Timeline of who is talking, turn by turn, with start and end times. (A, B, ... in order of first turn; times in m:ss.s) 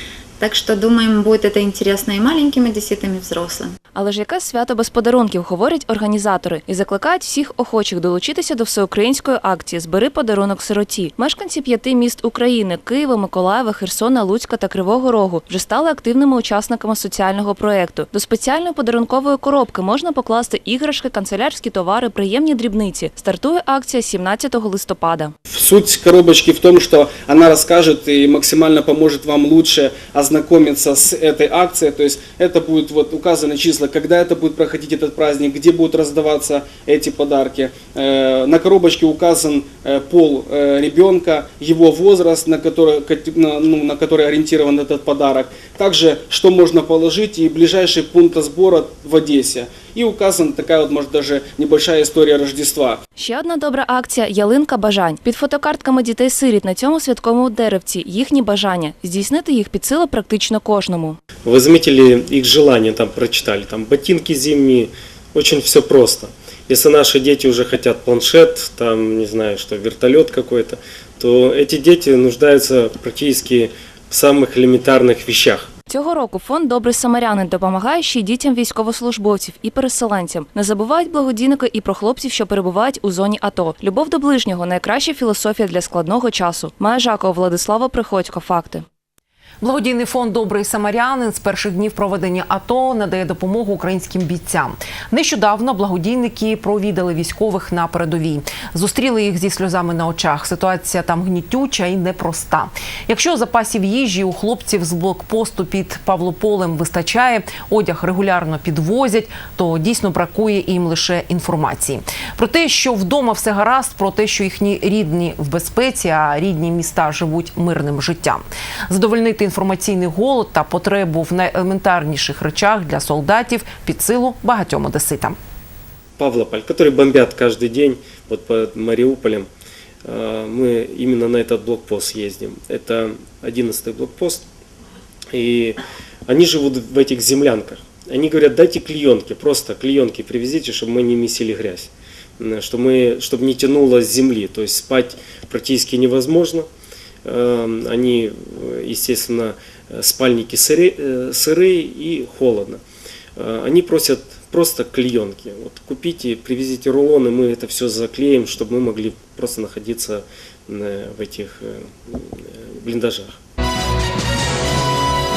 0:00.4-0:03.7 A
0:04.0-0:25.3 B
0:25.5-0:53.0 C
0:53.2-1:01.2 B
1:01.4-1:15.7 D
1:15.9-1:28.8 B
1:29.6-2:05.4 E
2:06.2-2:09.5 D
2:10.0-2:14.5 D
2:15.3-2:26.7 D
2:27.2-2:32.8 D
2:33.4-2:43.4 D